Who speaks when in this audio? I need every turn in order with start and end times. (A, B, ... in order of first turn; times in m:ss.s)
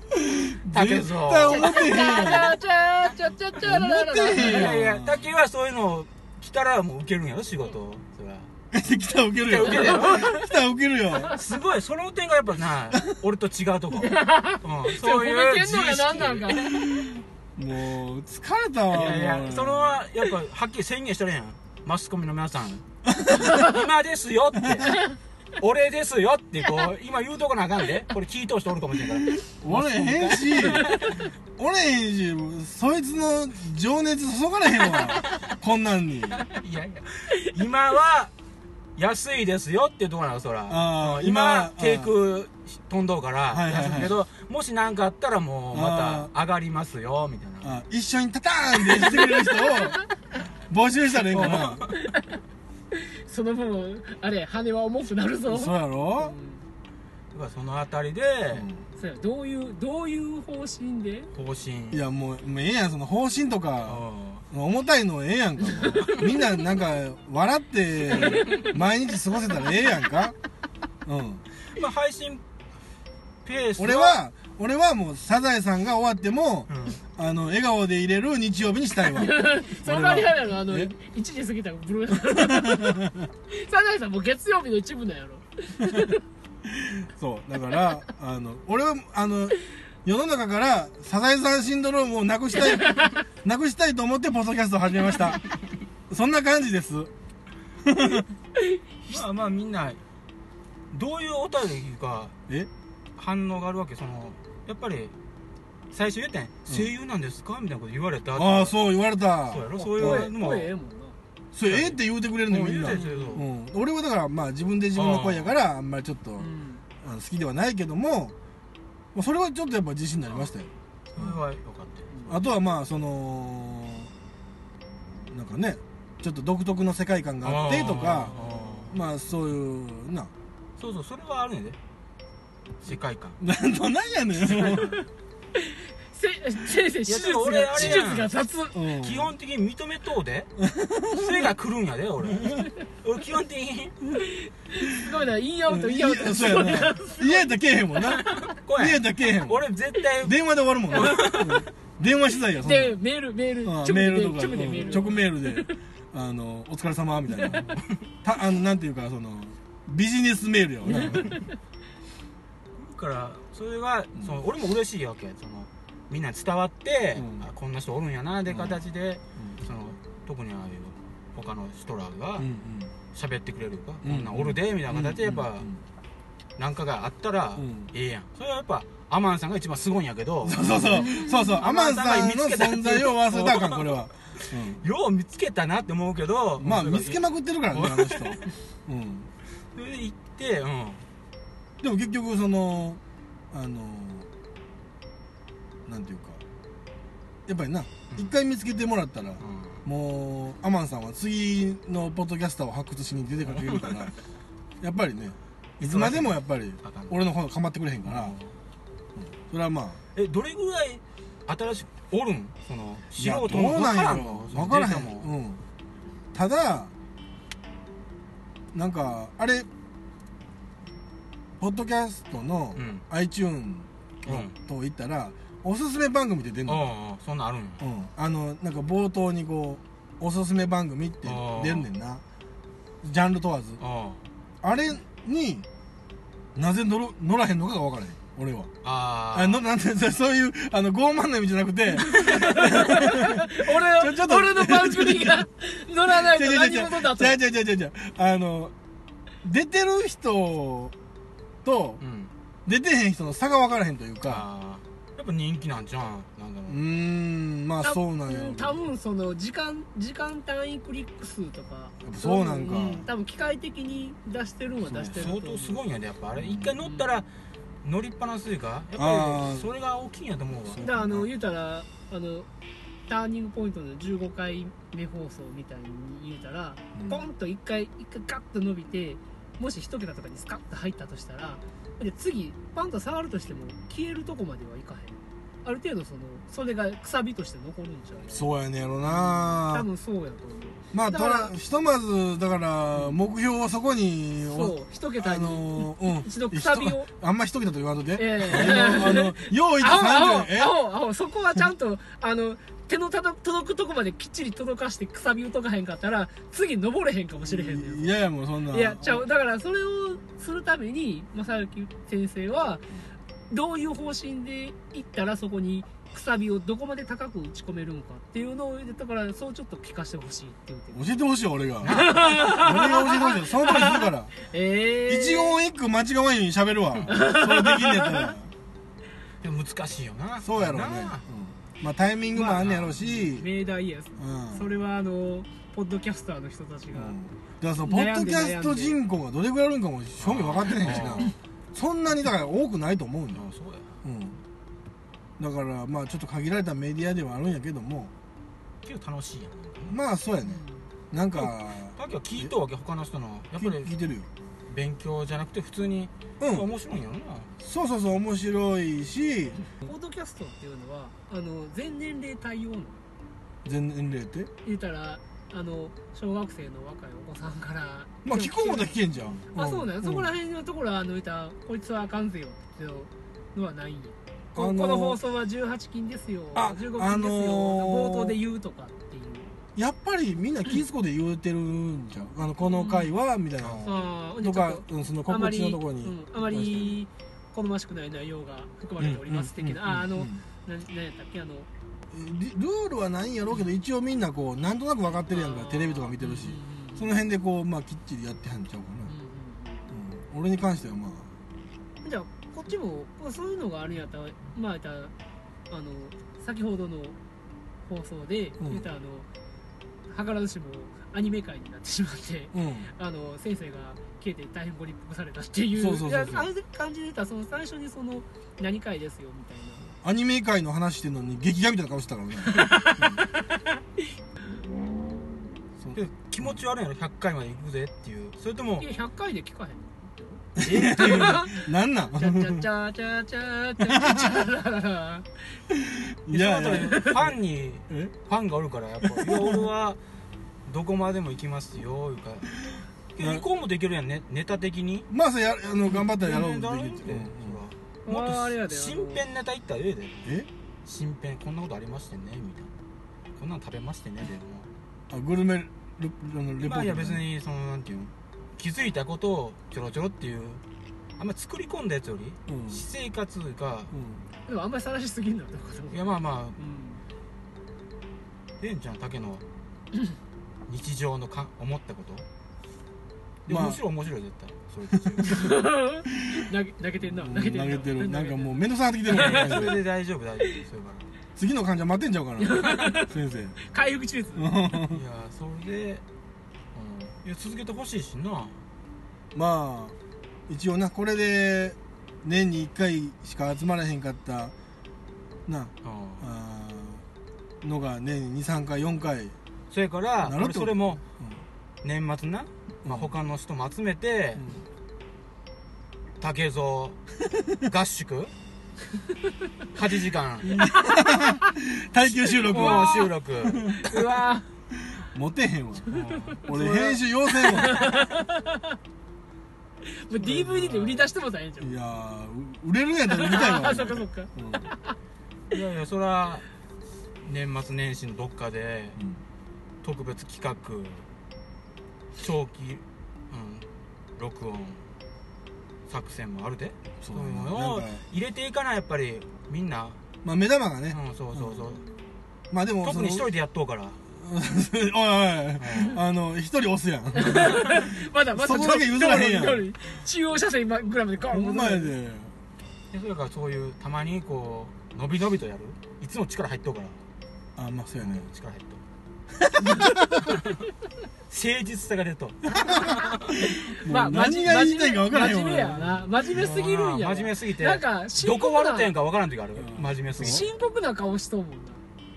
0:00.1-0:02.5 A
0:00.7-0:02.5 B
0:01.5-0:04.7 C
0:03.6-0:05.2 A
0:04.4-0:08.5 B
0:08.7-0:11.4 A
0:09.4-0:10.3 B
0:09.7-0:10.4 C
0:11.3-0:16.6 B
0:12.9-0:13.2 A
0:14.0-0:16.9 C
0:16.7-0:20.0 A
0:18.9-0:22.8 B
0:23.1-0:23.7 A
0:23.5-0:25.0 B
0:24.6-0:24.9 A
0:25.6-0:31.2 B
0:29.6-0:31.0 A
0:31.6-0:36.4 A
0:35.0-0:35.5 B
0:36.3-0:38.3 B
0:39.0-0:47.8 B
0:40.7-0:42.1 A
0:43.5-0:44.2 A
0:45.7-0:46.3 A
0:47.6-0:50.0 A
0:49.0-0:50.0 C
0:50.7-0:51.8 A
0:51.2-0:52.0 B
0:51.9-0:52.3 C
0:52.9-0:56.6 C
0:55.5-0:56.4 A
0:57.3-0:58.7 B
0:58.5-0:58.8 A
0:59.0-1:01.3 C
1:01.3-1:02.0 B
1:01.9-1:10.4 A
1:03.9-1:04.4 B
1:05.9-1:06.3 B
1:08.2-1:08.7 B
1:11.1-1:11.4 A
1:11.7-1:12.4 B
1:13.4-1:14.2 B
1:13.8-1:20.9 A
1:16.7-1:17.0 B
1:19.1-1:26.2 C
1:22.3-1:23.3 A
1:26.6-1:35.4 A
1:32.8-1:33.2 C
1:36.1-1:37.1 A
1:37.8-1:38.3 A
1:39.1-1:40.0 B
1:40.9-1:42.4 B
1:43.2-1:45.1 B
1:45.9-1:48.8 B
1:48.4-1:50.3 A
1:49.5-1:50.7 B
1:49.8-1:51.2 C
1:51.5-1:56.5 A
1:51.7-1:53.5 B
1:52.9-1:53.4 C
1:55.0-1:55.5 B
1:56.4-1:56.8 C
1:57.0-1:58.3 A
1:59.1-2:01.4 A
2:01.1-2:02.4 B
2:02.3-2:04.1 A
2:05.3-2:10.3 A
2:07.4-2:09.0 B
2:10.8-2:11.8 B
2:12.8-2:13.4 B
2:13.4-2:14.9 A
2:14.5-2:14.9 B
2:14.7-2:15.0 C
2:15.6-2:18.8 C
2:17.1-2:18.3 B
2:17.8-2:18.1 A
2:18.7-2:19.3 A
2:19.0-2:20.5 B
2:20.6-2:21.5 A
2:21.1-2:24.0 B
2:22.3-2:22.6 A
2:24.2-2:27.4 C
2:25.7-2:28.2 A
2:28.3-2:31.7 B
2:28.8-2:29.6 A
2:30.2-2:33.0 A
2:32.6-2:35.7 C
2:33.6-2:41.3 A
2:34.8-2:35.0 B
2:37.5-2:37.9 B
2:41.1-2:41.4 C
2:42.8-2:52.5 B
2:47.2-2:47.5 A
2:48.5-2:48.8 A
2:52.4-2:52.9 A
2:53.1-2:55.7 B
2:54.0-2:55.8 A
2:56.6-3:08.4 B
2:57.6-2:57.9 A
3:00.4-3:04.8 A
3:01.1-3:01.4 C
3:06.6-3:09.3 A
3:09.8-3:11.0 B
3:11.8-3:14.3 A
3:15.9-3:16.4 A
3:17.5-3:24.1 A
3:18.1-3:18.4 B
3:19.4-3:19.8 B
3:23.5-3:24.1 B
3:24.8-3:28.4 A
3:25.8-3:27.2 B
3:28.0-3:28.5 B
3:29.2-3:30.0 A
3:30.2-3:35.3 B
3:33.2-3:35.6 A
3:36.3-3:36.9 A
3:38.7-3:39.7 A
3:41.6-3:46.9 A
3:42.8-3:43.0 B
3:44.2-3:44.6 B
3:46.7-3:47.8 B
3:47.8-3:52.2 A
3:51.2-3:51.9 B
3:53.0-3:53.8 A
3:53.8-3:54.2 B
3:54.6-3:55.7 A
3:56.6-3:58.7 A
3:58.8-3:59.6 B
3:59.3-4:05.4 A
4:02.1-4:07.4 C
4:06.1-4:08.7 A
4:09.4-4:11.0 A
4:11.6-4:12.0 A
4:12.0-4:12.3 B
4:12.7-4:14.5 A
4:14.2-4:16.8 B
4:16.7-4:18.8 A
4:17.8-4:25.8 C
4:22.0-4:23.1 A
4:24.8-4:25.3 A
4:25.0-4:27.3 B
4:26.4-4:26.8 A
4:27.8-4:30.8 B
4:29.0-4:29.7 A
4:30.6-4:31.3 A
4:30.8-4:32.5 C
4:33.1-4:48.5 C
4:37.0-4:37.3 A
4:48.3-4:49.9 A
4:49.1-4:51.5 C
4:50.9-5:00.8 A
4:54.5-4:57.1 C
4:58.2-5:08.1 C
5:07.4-5:09.3 A
5:08.7-5:12.8 C
5:13.5-5:21.1 C
5:20.9-5:24.3 A
5:21.8-5:22.4 B
5:21.9-5:25.6 C
5:25.1-5:28.5 A
5:27.1-5:28.3 C
5:29.4-5:31.2 B
5:30.4-5:33.5 A
5:32.3-5:37.2 C
5:32.6-5:33.0 B
5:34.2-5:34.7 A
5:36.9-5:43.4 A
5:37.8-5:39.0 C
5:40.2-5:41.3 B
5:43.3-5:44.0 B
5:44.0-5:44.4 A
5:45.4-5:48.1 A
5:48.8-5:50.0 B
5:49.9-5:52.5 A
5:50.4-5:50.8 C
5:51.4-5:53.9 B
5:53.6-5:54.3 A
5:54.7-5:57.5 B
5:56.4-5:56.7 A
5:57.6-5:59.6 A
5:59.8-6:03.0 C
6:03.6-6:04.5 A
6:04.6-6:09.0 C
6:08.2-6:10.3 A
6:09.5-6:19.5 C
6:14.6-6:15.2 A
6:16.6-6:18.4 A
6:19.8-6:27.0 A
6:22.6-6:23.1 C
6:23.6-6:24.0 B
6:23.8-6:31.7 C
6:29.0-6:30.4 A
6:32.1-6:39.1 A
6:35.3-6:37.2 C
6:39.1-6:39.8 C
6:39.9-6:41.3 A
6:42.0-6:45.1 C
6:45.7-6:47.2 C
6:47.9-6:49.3 C
6:48.6-6:48.9 A
6:50.1-6:59.9 C
6:52.5-6:52.9 A
6:55.8-6:56.5 A
7:00.0-7:03.2 A
7:02.4-7:04.1 C
7:05.9-7:08.9 B
7:08.8-7:15.4 C
7:10.6-7:12.7 A
7:10.6-7:11.4 B
7:13.8-7:14.4 A
7:15.7-7:17.4 A
7:16.3-7:20.0 B
7:17.9-7:18.1 A
7:19.0-7:19.7 A
7:20.7-7:22.6 B
7:23.2-7:25.1 B
7:23.2-7:23.4 A
7:25.1-7:27.6 A
7:25.9-7:30.3 B
7:28.1-7:29.2 C
7:30.8-7:32.7 B
7:33.4-7:34.7 B
7:35.1-7:37.3 A
7:36.6-7:40.6 B
7:41.2-7:43.9 B
7:42.5-7:42.8 A
7:43.9-7:44.2 A
7:44.5-7:47.0 C
7:45.9-7:46.6 B
7:48.6-7:49.4 B
7:50.7-7:52.3 B
7:53.5-7:55.6 B
7:53.5-7:53.8 A
7:55.0-7:55.2 A
7:55.2-7:59.7 C
7:57.1-7:59.8 A
7:59.1-8:01.1 B
8:01.4-8:03.6 A
8:02.4-8:04.5 C
8:04.4-8:05.0 A
8:04.9-8:06.0 B
8:06.8-8:08.6 B
8:09.3-8:10.0 A
8:10.5-8:14.5 A
8:15.5-8:17.0 A
8:15.8-8:16.3 B
8:17.6-8:19.4 A
8:19.7-8:21.0 B
8:20.2-8:21.4 A
8:21.8-8:24.4 B
8:22.8-8:23.2 A
8:24.4-8:24.7 A
8:26.2-8:27.0 B
8:27.6-8:28.3 B
8:29.7-8:30.6 B
8:30.4-8:33.8 A
8:32.4-8:33.8 B
8:32.5-8:33.2 C
8:33.7-8:34.5 C
8:34.9-8:35.9 A
8:35.9-8:37.0 B
8:36.4-8:38.0 A
8:37.4-8:38.8 C
8:39.9-8:41.8 C
8:40.2-8:44.7 A
8:43.1-8:45.0 C
8:45.5-8:46.5 B
8:47.2-8:49.0 B
8:49.8-8:51.1 B
8:52.2-8:53.7 B
8:54.2-8:54.8 B
8:55.9-9:00.0 B
8:57.0-8:58.0 A
9:00.2-9:01.8 A
9:00.9-9:01.8 B
9:02.5-9:03.3 A
9:02.8-9:04.0 B
9:04.1-9:09.7 A
9:05.6-9:06.0 B
9:07.2-9:11.9 C
9:11.3-9:12.3 A
9:12.9-9:17.0 B
9:17.6-9:18.3 A
9:18.0-9:18.8 B
9:19.4-9:20.4 A
9:20.2-9:20.6 B
9:21.3-9:23.4 B
9:22.5-9:26.5 A
9:23.3-9:28.9 C
9:26.3-9:30.5 B
9:29.6-9:30.5 A
9:30.2-9:31.8 C